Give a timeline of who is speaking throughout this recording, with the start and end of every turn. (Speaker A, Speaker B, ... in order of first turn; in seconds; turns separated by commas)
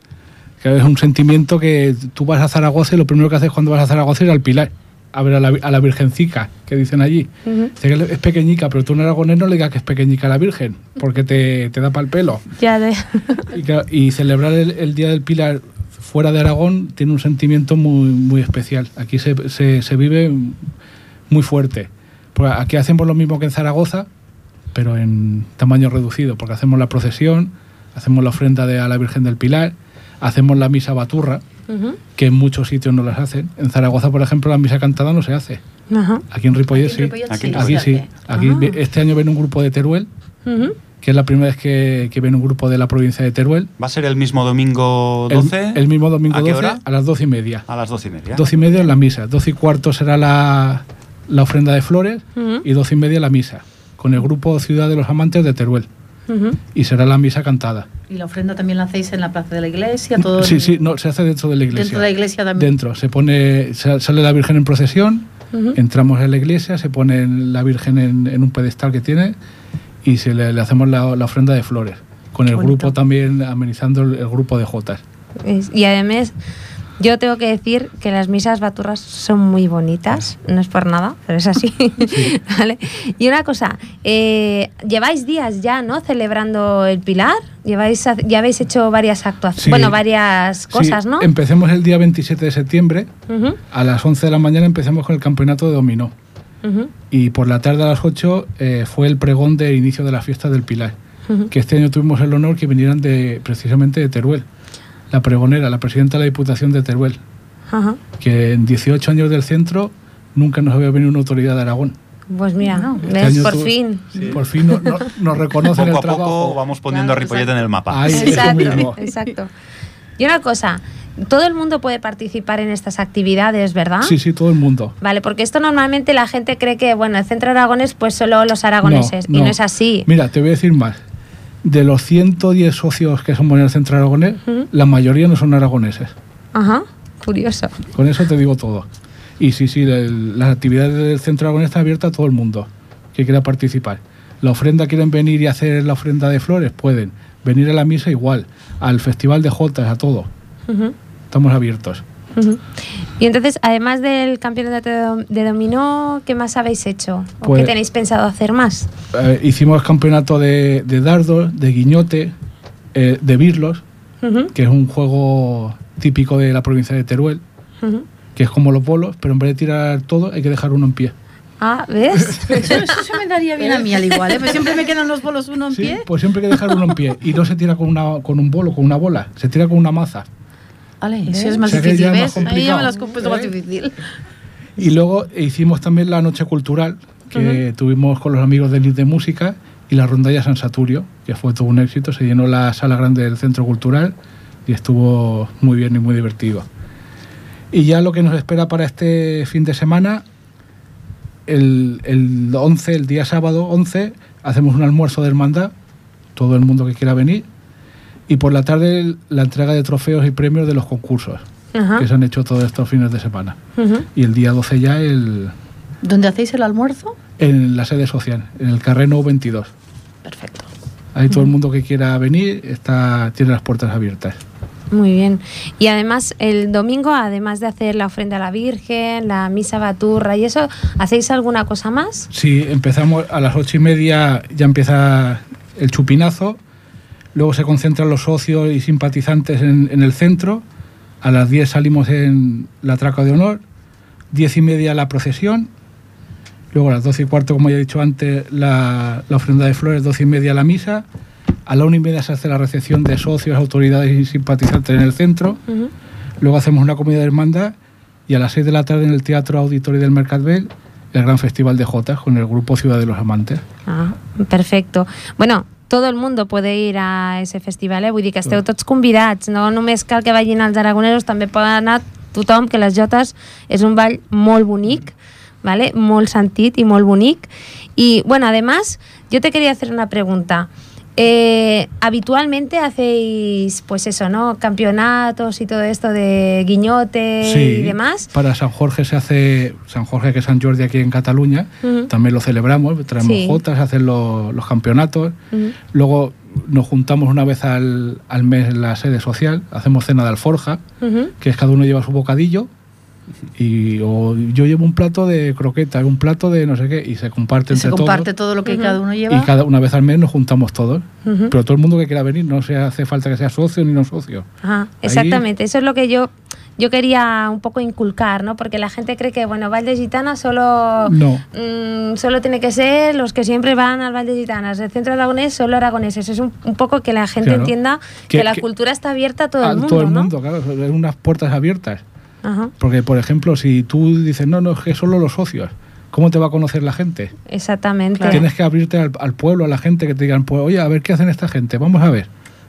Speaker A: 0.6-12.4, Speaker B: 7.5-7.7, Speaker B: 12.6-13.2, Speaker A: 13.5-20.6, Speaker A: 21.3-24.1, Speaker A: 24.7-31.4, Speaker B: 31.7-32.0, Speaker A: 32.1-35.6, Speaker B: 35.9-36.2, Speaker A: 36.3-40.1, Speaker C: 36.7-38.1, Speaker D: 37.3-37.8, Speaker B: 38.3-38.7, Speaker B: 40.5-40.8, Speaker A: 41.0-43.7, Speaker D: 43.8-46.8, Speaker A: 45.3-47.6, Speaker D: 47.7-48.4, Speaker A: 48.3-55.9, Speaker B: 52.4-52.6, Speaker B: 56.3-56.6, Speaker A: 56.7-57.9, Speaker C: 58.1-60.8, Speaker A: 60.3-69.3, Speaker C: 61.7-62.7, Speaker A: 70.0-75.0, Speaker B: 72.5-72.9, Speaker B: 75.4-76.3, Speaker B: 77.0-91.3, Speaker A: 82.0-82.3, Speaker A: 89.6-90.0, Speaker A: 90.7-93.1, Speaker B: 93.3-93.6, Speaker A: 93.7-96.1, Speaker B: 96.6-96.9, Speaker A: 97.1-100.9, Speaker A: 101.5-104.5, Speaker A: 105.1-107.2, Speaker B: 107.7-108.0, Speaker A: 108.2-112.0, Speaker B: 112.3-114.8, Speaker C: 112.7-113.1, Speaker A: 113.2-116.6, Speaker D: 115.7-118.7, Speaker C: 116.9-117.5, Speaker A: 117.9-119.0, Speaker B: 118.1-119.5, Speaker C: 118.2-118.5, Speaker B: 120.2-124.1, Speaker A: 124.0-124.9, Speaker B: 125.0-130.1, Speaker A: 128.8-131.0, Speaker A: 131.6-136.1, Speaker B: 136.5-137.7, Speaker A: 137.9-138.9, Speaker A: 139.4-150.3, Speaker B: 150.7-150.9, Speaker A: 151.3-152.0, Speaker B: 152.3-152.6, Speaker B: 153.2-158.9, Speaker A: 157.4-157.7, Speaker A: 159.1-162.3, Speaker A: 162.9-163.8, Speaker B: 164.2-164.5, Speaker A: 164.5-167.4, Speaker A: 168.3-171.1, Speaker B: 171.6-172.8, Speaker A: 172.3-172.6, Speaker C: 172.5-176.1, Speaker A: 175.7-180.2, Speaker C: 181.0-183.9, Speaker B: 181.3-181.9, Speaker A: 181.6-183.4, Speaker B: 183.0-183.2, Speaker A: 184.8-194.1, Speaker B: 187.3-187.6, Speaker A: 194.7-196.7, Speaker A: 197.7-200.2, Speaker A: 201.5-205.7, Speaker A: 206.3-207.5, Speaker A: 208.3-211.4, Speaker B: 211.7-212.1, Speaker A: 212.0-213.6, Speaker B: 213.8-214.0, Speaker A: 214.1-215.5, Speaker C: 216.0-217.2, Speaker A: 217.4-219.7, Speaker C: 220.2-220.7, Speaker A: 221.1-224.4, Speaker B: 224.9-232.3, Speaker A: 232.3-236.6, Speaker A: 237.3-240.6, Speaker A: 241.2-243.6, Speaker A: 244.3-245.7, Speaker A: 246.7-251.0, Speaker A: 251.7-255.6, Speaker A: 256.4-257.7, Speaker A: 258.3-263.6, Speaker B: 263.9-288.3, Speaker A: 287.4-295.4, Speaker B: 291.8-292.1, Speaker B: 293.2-293.6, Speaker A: 295.9-300.8, Speaker B: 301.0-301.3, Speaker A: 301.4-302.7, Speaker A: 303.6-308.3, Speaker C: 307.7-309.5, Speaker B: 308.6-309.0, Speaker A: 309.3-314.5, Speaker B: 311.2-311.5, Speaker B: 314.6-330.3, Speaker A: 315.0-315.4, Speaker A: 321.1-321.4, Speaker A: 327.4-327.7, Speaker A: 328.3-328.6, Speaker A: 329.6-332.0, Speaker B: 332.4-332.7, Speaker A: 332.8-337.3, Speaker B: 337.5-338.4, Speaker A: 338.2-342.3